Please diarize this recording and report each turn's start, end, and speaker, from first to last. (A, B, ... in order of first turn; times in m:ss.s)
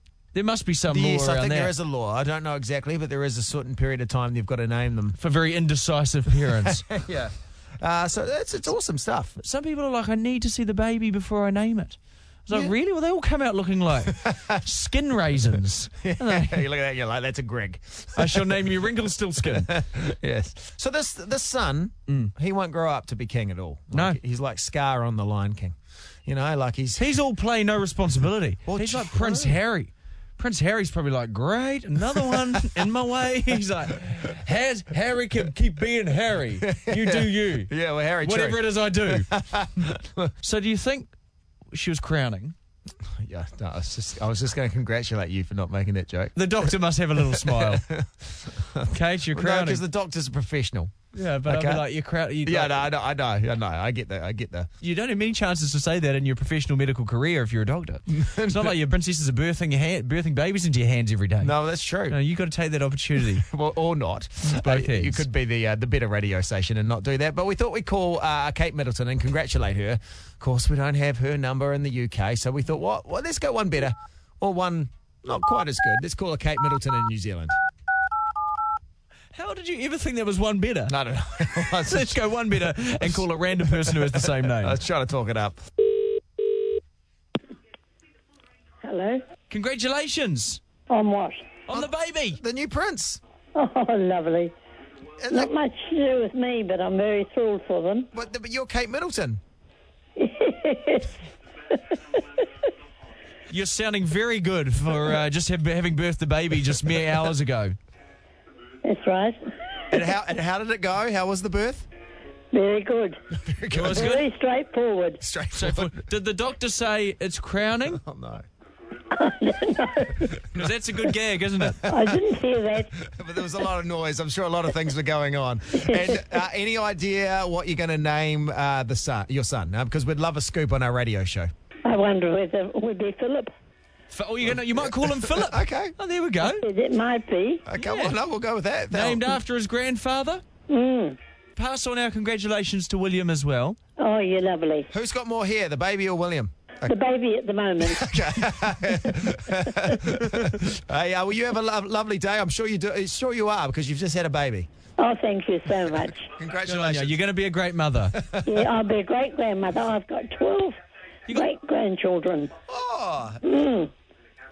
0:00.3-0:01.7 A
0:00.9-0:05.2 B
0:05.2-0:06.8 A
0:06.5-0:09.4 B
0:09.4-0:16.6 A
0:14.1-0:14.6 B
0:16.0-0:18.6 B
0:18.2-0:19.7 A
0:19.4-0:25.8 B
0:22.1-0:22.3 A
0:23.9-0:24.2 A
0:26.2-0:27.0 B
0:27.0-0:37.7 A
0:28.7-0:29.6 B
0:32.2-0:32.8 B
0:36.6-0:40.3 B
0:38.2-0:39.3 A
0:40.4-0:41.1 A
0:41.7-0:42.5 A
0:43.1-0:51.8 B
0:46.4-0:47.8 A
0:48.9-0:49.8 A
0:51.1-0:52.8 A
0:52.4-0:54.7 B
0:54.8-1:01.5 A
0:58.1-0:58.8 B
1:01.4-1:02.2 B
1:02.1-1:03.5 A
1:03.4-1:17.5 B
1:04.4-1:05.3 A
1:19.3-1:20.9 A
1:20.9-1:22.2 B
1:21.8-1:24.8 A
1:22.7-1:25.6 B
1:28.8-1:29.2 C
1:29.5-1:30.6 A
1:30.9-1:31.6 C
1:31.7-1:32.4 A
1:31.7-1:33.2 B
1:33.5-1:34.5 C
1:35.2-1:35.5 B
1:35.3-1:38.1 C
1:38.1-1:39.4 B
1:40.2-1:41.1 C
1:41.7-1:42.2 C
1:43.5-1:47.8 A
1:48.8-1:49.4 C
1:49.9-1:51.9 B
1:52.5-1:53.2 C
1:53.4-1:54.2 B
1:53.7-1:54.2 A
1:53.9-1:55.2 C
1:55.2-1:56.0 B
1:55.5-1:58.0 A
1:57.9-1:58.4 B
1:59.1-2:00.3 C
2:00.6-2:01.8 A
2:01.7-2:02.0 B
2:01.9-2:02.9 C
2:03.1-2:11.5 B
2:05.8-2:06.2 C
2:11.8-2:13.5 C
2:14.1-2:16.6 A
2:14.4-2:15.9 B
2:16.6-2:17.6 C
2:17.6-2:19.4 B
2:17.8-2:18.2 A
2:18.9-2:20.4 A
2:20.7-2:21.2 C
2:21.6-2:23.8 A
2:24.0-2:24.9 C
2:24.9-2:26.9 B
2:26.8-2:28.1 C
2:27.8-2:34.7 B
2:35.0-2:36.3 C
2:36.4-2:37.2 B
2:36.6-2:38.1 A
2:38.2-2:38.6 B
2:38.4-2:40.8 C
2:41.3-2:42.5 C
2:42.7-2:43.4 B
2:43.4-2:43.9 C